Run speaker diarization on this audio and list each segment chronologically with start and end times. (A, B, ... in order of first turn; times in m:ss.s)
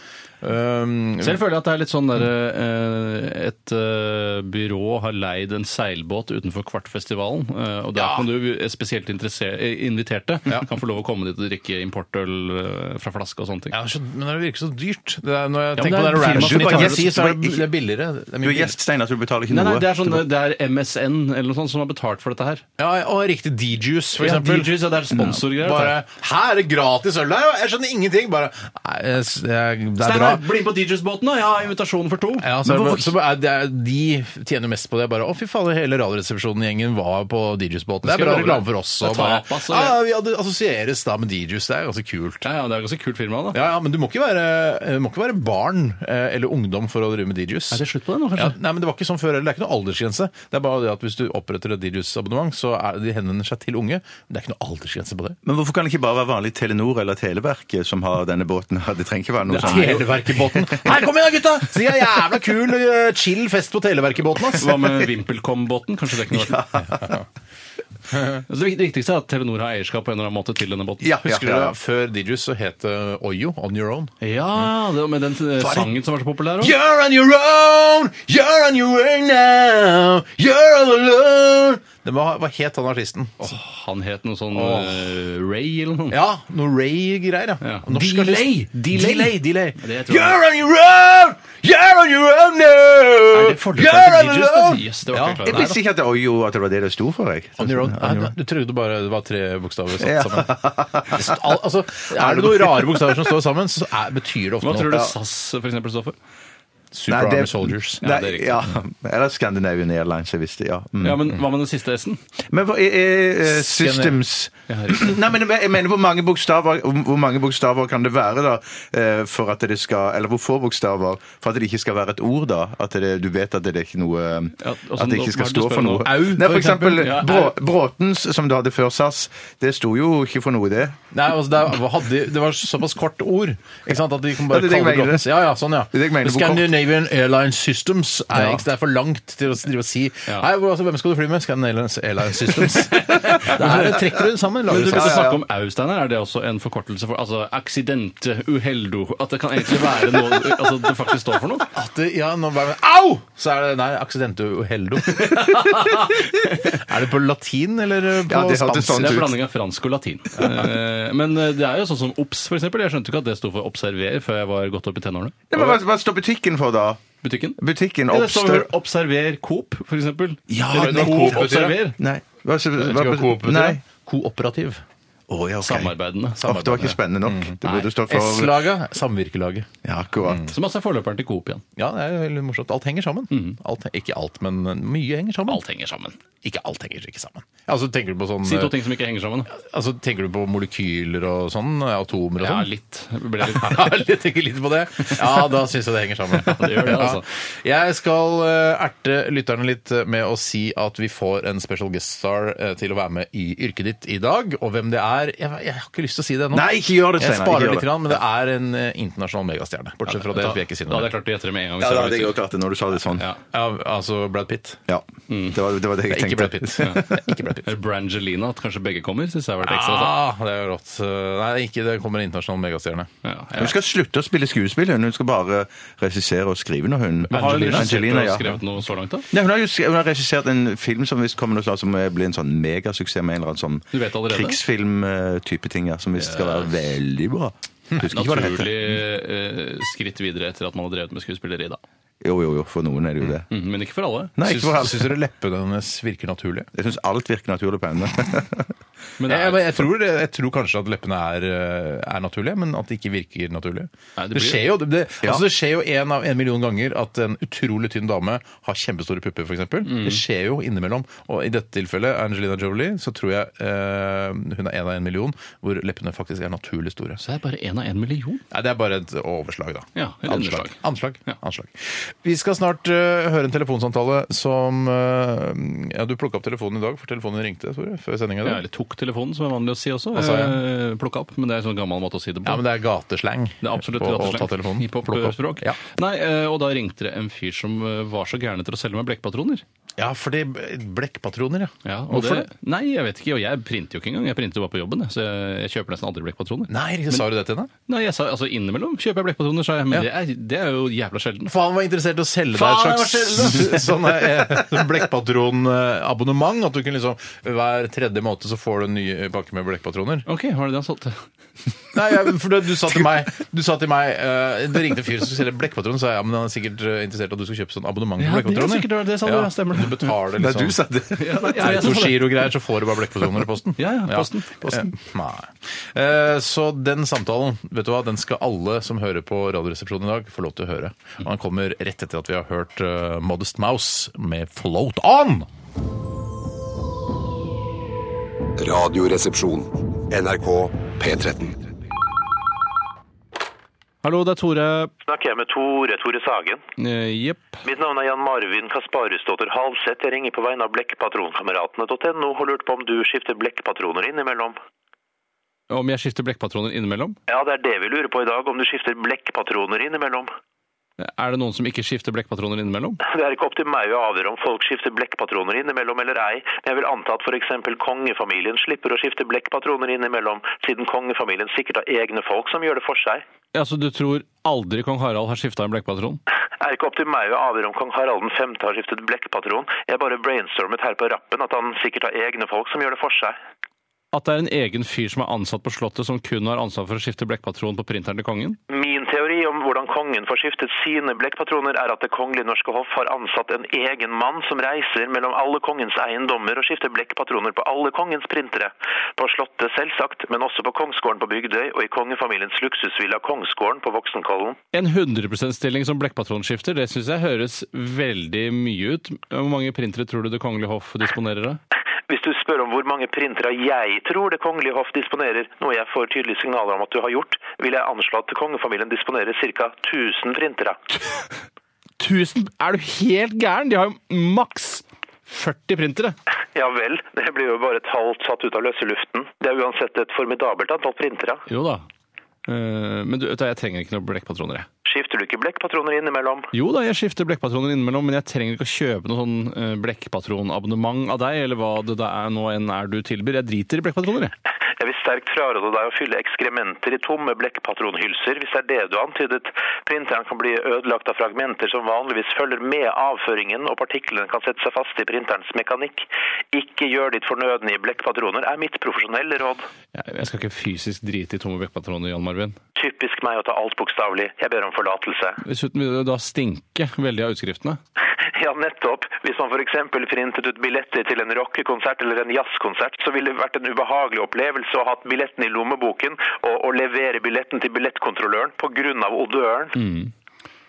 0:00.4-0:01.4 A
0:01.2-0:13.8 B
0:07.9-0:08.3 A
0:13.7-0:18.8 A
0:15.8-0:17.1 B
0:16.2-0:17.7 C
0:18.4-0:20.2 C
0:19.5-0:22.6 B
0:22.8-0:30.4 A
0:24.2-0:26.0 B
0:30.0-0:32.5 B
0:32.4-0:42.4 A
0:32.6-0:33.1 C
0:38.0-0:40.0 B
0:42.4-0:43.6 B
0:43.5-0:47.8 A
0:47.7-0:48.6 B
0:48.3-0:55.4 A
0:55.4-1:01.0 C
0:59.5-1:00.0 B
0:59.5-1:04.8 A
1:04.6-1:06.6 B
1:06.3-1:07.2 C
1:06.9-1:07.2 A
1:08.1-1:08.4 A
1:08.5-1:11.1 B
1:11.0-1:11.7 C
1:11.2-1:14.1 A
1:14.2-1:16.7 B
1:16.6-1:23.6 A
1:23.4-1:26.2 B
1:24.5-1:25.1 A
1:26.1-1:35.8 A
1:27.6-1:30.4 B
1:33.3-1:35.7 B
1:35.4-1:38.3 C
1:37.6-1:45.1 A
1:40.0-1:41.4 C
1:42.1-1:43.3 C
1:44.6-1:46.2 B
1:46.9-1:48.0 A
1:47.1-1:51.3 C
1:48.0-1:48.6 B
1:51.0-1:52.2 B
1:52.5-2:11.0 C
1:53.4-1:54.2 A
1:54.7-1:55.1 B
2:04.6-2:06.1 B
2:06.0-2:07.3 A
2:07.0-2:07.5 B
2:11.1-2:25.4 A
2:14.5-2:15.4 C
2:15.9-2:16.7 C
2:22.9-2:24.0 B
2:24.7-2:31.7 B
2:24.8-2:25.4 C
2:31.7-2:39.3 A
2:35.1-2:36.8 B
2:38.2-2:39.3 C
2:38.9-2:45.7 B
2:45.5-2:47.0 C
2:47.2-2:47.6 B
2:47.6-2:48.7 C
2:48.1-2:52.0 B
2:50.5-2:53.8 C
2:50.7-2:51.8 A
2:52.8-2:54.8 A
2:55.3-2:58.6 C
2:55.6-2:56.4 B
2:56.4-2:59.7 A
2:59.8-3:00.5 C
3:00.2-3:00.5 A
3:00.4-3:01.6 B
3:01.8-3:05.6 A
3:03.3-3:03.6 B
3:05.5-3:06.2 B
3:06.4-3:08.8 A
3:08.4-3:09.5 B
3:09.5-3:12.7 A
3:12.4-3:14.0 B
3:13.4-3:31.1 A
3:16.4-3:17.2 B
3:26.5-3:27.9 C
3:30.1-3:32.4 B
3:31.8-3:33.2 C
3:33.5-3:34.8 A
3:34.9-3:37.2 C
3:35.3-3:35.6 B
3:36.1-3:37.7 A
3:37.6-3:40.2 B
3:39.6-3:43.1 A
3:43.2-3:43.7 B
3:43.6-3:48.5 C
3:47.3-3:48.0 A
3:47.3-3:49.3 B
3:49.3-3:58.7 C
3:53.9-3:54.6 B
3:56.2-3:56.7 B
3:57.9-3:58.3 A
3:58.0-4:01.8 B
4:02.2-4:03.4 C
4:03.5-4:04.3 B
4:04.4-4:05.1 C
4:04.4-4:06.7 A
4:06.7-4:08.7 C
4:09.2-4:09.6 B
4:09.3-4:27.2 A
4:14.2-4:14.7 B
4:19.8-4:20.2 B
4:27.2-4:28.4 B
4:28.5-4:38.6 A
4:30.0-4:31.4 B
4:38.4-4:42.6 B
4:40.1-4:40.6 A
4:42.4-4:45.8 A
4:43.6-4:49.6 B
4:50.0-4:52.5 A
4:51.8-4:57.3 B
4:56.7-4:57.7 A
4:57.9-5:01.5 B
5:01.4-5:10.2 A
5:02.5-5:03.8 B
5:10.2-5:11.2 B
5:11.9-5:20.8 A
5:18.2-5:20.1 B
5:20.4-5:21.8 C
5:21.2-5:22.4 B
5:21.4-5:35.5 A
5:23.8-5:24.6 B
5:38.6-5:41.6 D
5:44.0-5:44.9 B
5:45.0-5:46.6 E
5:46.8-5:47.6 B
5:47.6-5:54.6 E
5:55.7-5:57.2 B
5:57.3-6:00.3 E
6:01.0-6:03.0 B
6:03.0-6:13.2 E
6:13.5-6:16.2 B
6:16.6-6:23.4 E
6:24.1-6:28.6 B
6:28.7-6:44.6 E
6:44.7-6:51.6 B
6:52.1-7:00.8 E
7:02.0-7:06.2 B
7:06.5-7:11.4 E
7:11.5-7:11.8 B
7:12.5-7:14.7 B
7:14.8-7:16.5 E
7:16.5-7:24.3 B
7:24.8-7:39.7 E
7:39.9-7:42.6 B
7:42.8-7:45.4 E
7:45.4-7:47.8 B
7:48.2-7:59.7 E
7:59.7-8:00.1 B